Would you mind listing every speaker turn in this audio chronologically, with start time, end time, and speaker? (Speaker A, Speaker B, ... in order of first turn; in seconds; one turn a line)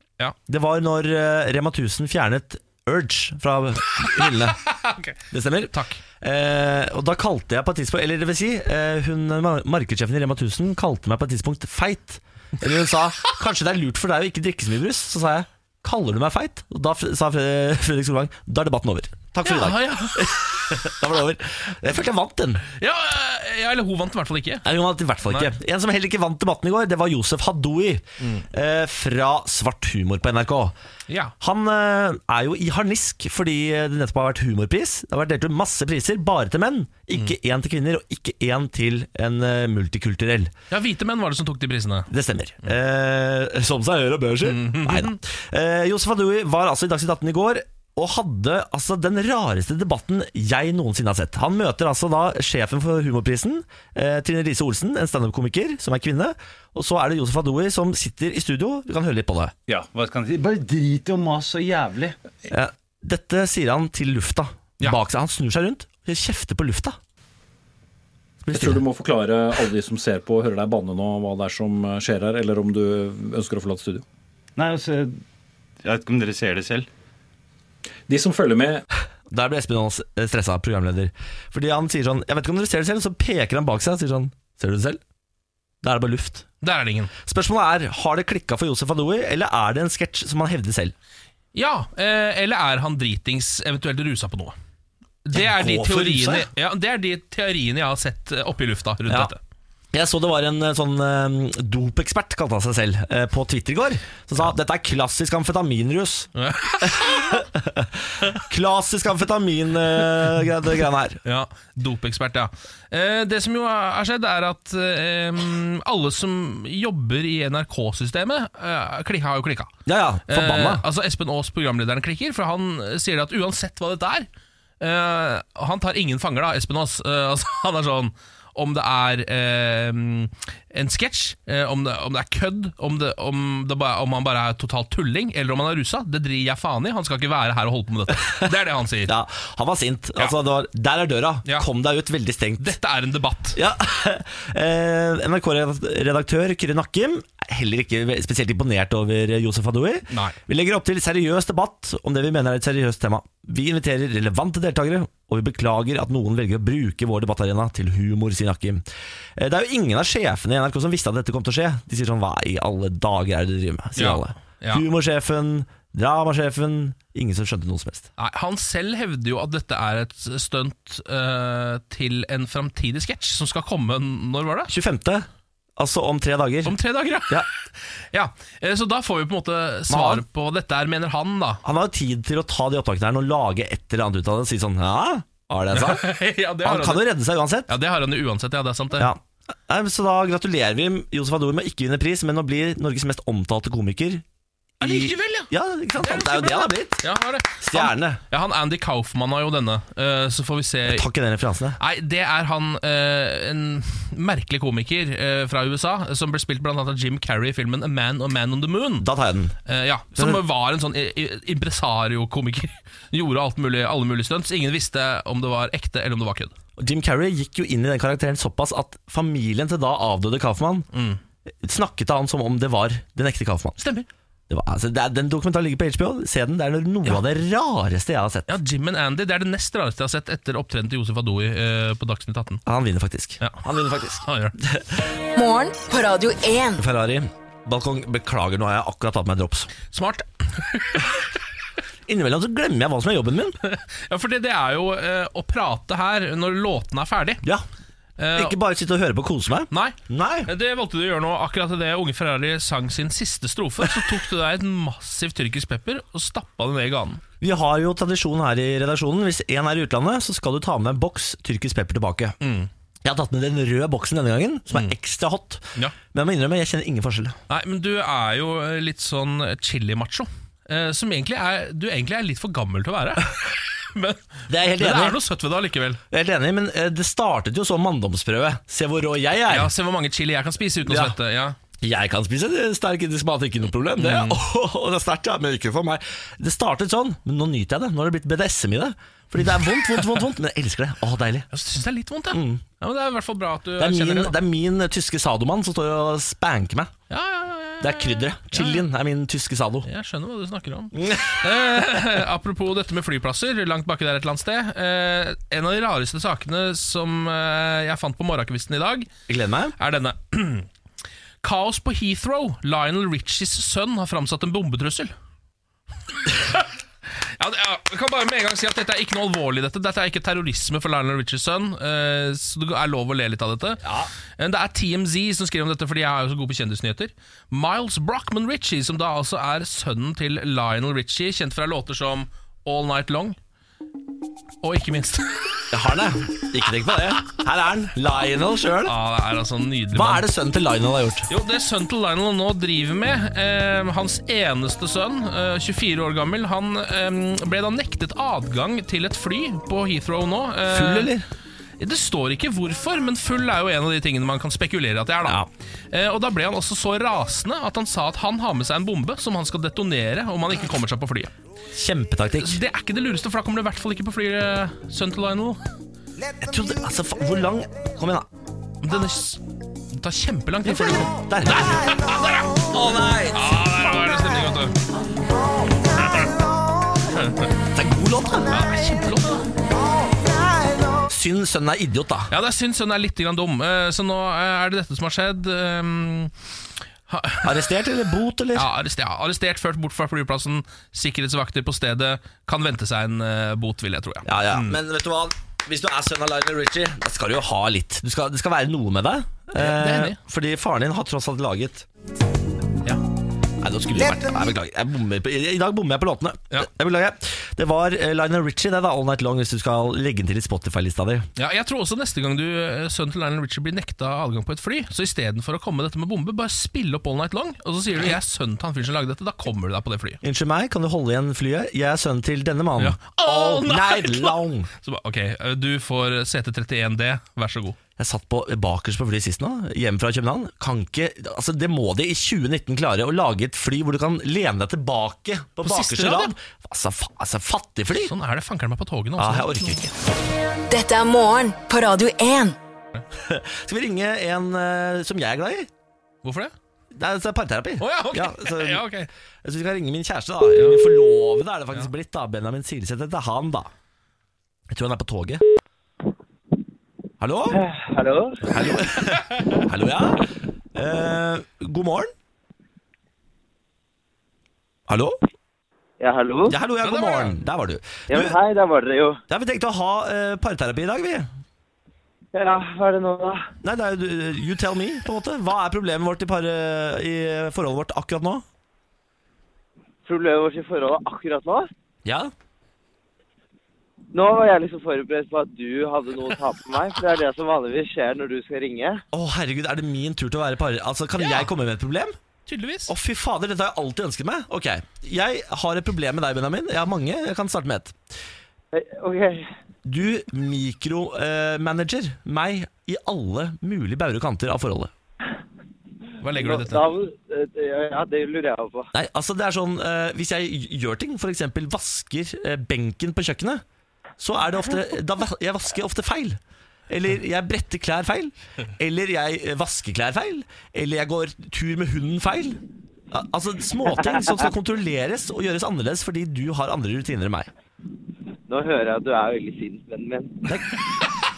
Speaker A: 0.5-4.6
Speaker B: 4.0-5.2
Speaker A: 5.3-22.6
Speaker B: 5.7-6.0
Speaker B: 19.4-20.6
Speaker B: 22.8-24.6
Speaker A: 24.6-30.7
Speaker B: 31.1-31.3
Speaker A: 31.4-40.5
Speaker B: 40.7-42.1
Speaker A: 42.1-59.5
Speaker B: 44.4-45.2
Speaker C: 59.7-62.2
Speaker A: 62.5-67.0
Speaker A: 68.4-68.8
Speaker D: 68.5-74.0
Speaker C: 74.6-75.2
Speaker C: 75.8-76.9
Speaker D: 78.1-78.8
Speaker A: 79.3-85.0
Speaker A: 85.8-86.5
Speaker B: 86.6-87.1
Speaker A: 87.2-90.9
Speaker B: 91.5-94.5
Speaker B: 95.2-99.4
Speaker A: 95.3-96.5
Speaker A: 99.9-106.3
Speaker B: 106.4-107.4
Speaker A: 106.9-111.2
Speaker B: 111.2-119.8
Speaker A: 119.9-120.8
Speaker B: 120.3-124.3
Speaker B: 124.8-139.1
Speaker A: 139.1-142.7
Speaker B: 142.6-143.6
Speaker A: 143.6-158.8
Speaker B: 150.1-150.4
Speaker A: 159.4-168.1
Speaker B: 164.0-164.8
Speaker B: 168.2-174.7
Speaker A: 174.7-176.8
Speaker B: 176.7-177.6
Speaker B: 178.1-181.6
Speaker A: 179.9-180.2
Speaker A: 181.6-186.1
Speaker B: 185.7-187.1
Speaker A: 186.6-187.7
Speaker B: 187.7-189.1
Speaker A: 189.0-194.2
Speaker A: 194.8-197.0
Speaker B: 194.8-201.1
Speaker A: 197.6-198.2
Speaker A: 200.9-201.8
Speaker B: 201.8-209.1
Speaker A: 209.0-209.6
Speaker B: 209.7-216.6
Speaker A: 210.2-210.4
Speaker A: 216.8-220.9
Speaker B: 220.9-221.2
Speaker A: 221.6-223.8
Speaker B: 223.8-224.1
Speaker A: 224.5-228.5
Speaker B: 228.5-232.6
Speaker A: 232.7-235.0
Speaker B: 234.2-234.6
Speaker E: 235.3-236.8
Speaker A: 236.8-239.7
Speaker B: 239.9-241.2
Speaker A: 242.1-243.6
Speaker B: 243.6-247.4
Speaker B: 248.2-248.6
Speaker A: 248.3-250.5
Speaker B: 249.7-257.2
Speaker A: 257.4-262.4
Speaker B: 262.4-262.7
Speaker A: 263.0-267.4
Speaker B: 267.5-276.0
Speaker A: 274.5-275.2
Speaker A: 276.1-279.7
Speaker B: 279.5-281.6
Speaker A: 280.9-281.1
Speaker A: 281.8-291.5
Speaker B: 284.0-284.4
Speaker B: 291.5-294.4
Speaker A: 292.3-292.6
Speaker A: 293.8-296.9
Speaker B: 297.1-298.9
Speaker A: 297.8-299.9
Speaker B: 299.9-309.1
Speaker A: 301.0-301.4
Speaker A: 309.3-309.8
Speaker B: 309.8-310.7
Speaker B: 311.4-315.1
Speaker B: 316.3-323.8
Speaker A: 323.8-324.1
Speaker B: 324.4-333.4
Speaker B: 334.6-335.7
Speaker A: 335.7-338.9
Speaker B: 338.9-340.2
Speaker A: 339.9-341.3
Speaker B: 341.3-351.1
Speaker A: 350.7-351.3
Speaker B: 351.8-361.3
Speaker A: 361.7-362.6
Speaker B: 362.4-365.6
Speaker A: 366.4-368.3
Speaker B: 368.8-369.4
Speaker B: 369.9-372.6
Speaker A: 370.6-372.1
Speaker A: 372.6-373.5
Speaker B: 373.3-374.8
Speaker B: 376.0-376.3
Speaker B: 377.1-377.5
Speaker A: 377.7-378.7
Speaker B: 378.5-379.5
Speaker A: 381.0-382.3
Speaker B: 382.3-386.3
Speaker B: 387.1-387.7
Speaker A: 387.4-388.7
Speaker B: 388.6-394.8
Speaker A: 394.2-401.9
Speaker B: 399.6-400.2
Speaker A: 403.6-411.3
Speaker B: 411.4-420.2
Speaker A: 420.2-424.7
Speaker B: 422.8-427.8
Speaker A: 428.0-438.1
Speaker B: 435.6-436.3
Speaker B: 438.0-439.9
Speaker A: 439.2-439.9
Speaker E: 440.7-442.6
Speaker A: 443.1-445.7
Speaker B: 446.2-446.5
Speaker A: 446.9-448.8
Speaker B: 447.8-449.1
Speaker A: 449.4-453.7
Speaker A: 454.7-455.4
Speaker A: 457.2-457.6
Speaker F: 457.5-458.4
Speaker A: 458.5-462.1
Speaker A: 464.9-465.2
Speaker F: 466.0-466.6
Speaker A: 466.5-468.4
Speaker B: 466.8-467.3
Speaker F: 468.1-469.2
Speaker A: 469.3-471.3
Speaker F: 472.3-473.5
Speaker A: 473.6-478.4
Speaker F: 480.1-481.7
Speaker A: 482.1-482.3
Speaker F: 484.1-489.0
Speaker A: 489.1-492.2
Speaker B: 491.2-491.5
Speaker B: 492.5-492.9
Speaker A: 492.9-498.0
Speaker F: 498.7-499.5
Speaker A: 499.9-504.9
Speaker B: 506.2-506.9
Speaker F: 506.4-508.9
Speaker A: 508.9-513.6
Speaker A: 514.2-516.4
Speaker A: 516.9-522.6
Speaker A: 523.1-527.5
Speaker F: 528.5-530.5